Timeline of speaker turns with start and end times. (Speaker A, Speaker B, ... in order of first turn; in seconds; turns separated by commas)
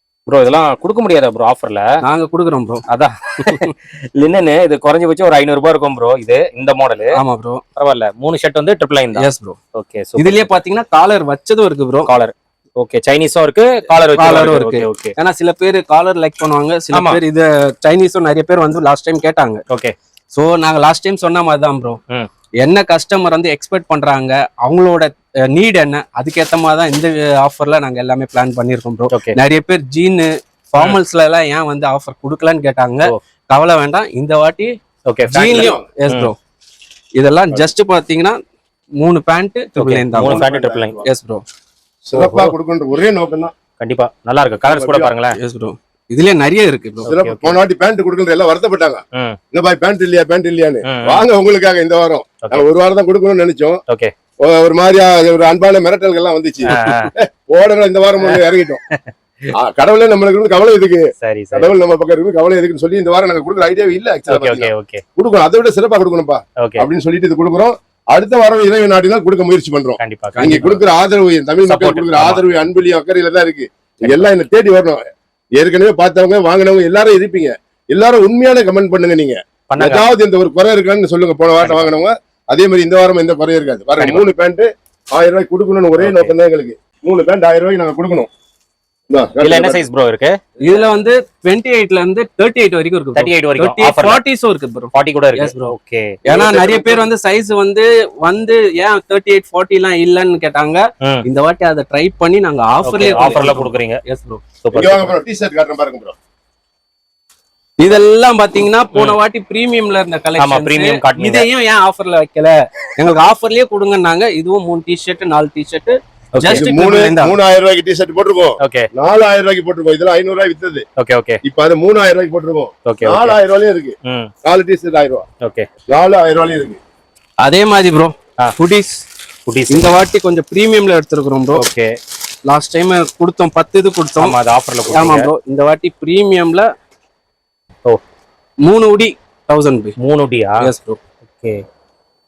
Speaker A: 0.3-1.9, Speaker B: 2.0-2.8, Speaker A: 2.9-7.1, Speaker B: 7.1-7.6, Speaker A: 7.8-10.5, Speaker B: 9.2-9.6, Speaker B: 10.2-12.1, Speaker A: 12.1-15.1, Speaker B: 14.1-19.6, Speaker A: 16.9-17.2, Speaker A: 19.7-19.9, Speaker B: 20.3-22.0, Speaker B: 22.6-34.7, Speaker A: 35.1-36.3, Speaker B: 35.3-36.3, Speaker C: 35.5-35.9, Speaker B: 37.2-38.4, Speaker B: 39.0-40.5, Speaker A: 39.8-41.0, Speaker C: 40.2-41.0, Speaker B: 41.0-41.4, Speaker C: 42.0-43.5, Speaker A: 42.1-42.5, Speaker A: 43.8-45.4, Speaker C: 44.6-45.1, Speaker B: 45.4-47.1, Speaker A: 47.1-47.6, Speaker C: 47.1-53.8, Speaker A: 50.9-51.2, Speaker C: 54.4-58.8, Speaker A: 56.7-57.1, Speaker A: 58.2-59.1, Speaker C: 59.5-88.3, Speaker A: 61.2-61.7, Speaker A: 64.3-65.0, Speaker A: 70.0-70.8, Speaker B: 70.4-70.7, Speaker A: 71.6-72.4, Speaker A: 74.0-74.3, Speaker A: 79.7-80.1, Speaker A: 81.6-81.9, Speaker A: 84.0-84.2, Speaker A: 86.0-86.3, Speaker C: 89.1-89.8, Speaker A: 89.4-90.3, Speaker B: 90.6-95.7, Speaker A: 93.2-94.2, Speaker A: 94.9-96.2, Speaker B: 96.2-104.4, Speaker C: 96.3-97.0, Speaker A: 102.8-104.0, Speaker A: 104.6-105.1, Speaker C: 104.7-106.2, Speaker B: 107.8-117.4, Speaker A: 110.4-111.5, Speaker A: 116.3-116.7, Speaker C: 116.5-120.8, Speaker A: 118.6-118.9, Speaker A: 121.0-121.4, Speaker C: 121.4-125.2, Speaker A: 122.8-123.4, Speaker A: 124.0-124.3, Speaker C: 125.9-126.8, Speaker B: 127.4-129.0, Speaker A: 129.4-129.9, Speaker B: 129.7-131.7, Speaker A: 131.6-131.9, Speaker B: 132.4-134.4, Speaker A: 134.2-135.3, Speaker B: 134.9-136.7, Speaker B: 138.6-139.9, Speaker A: 140.0-140.7, Speaker B: 140.6-141.0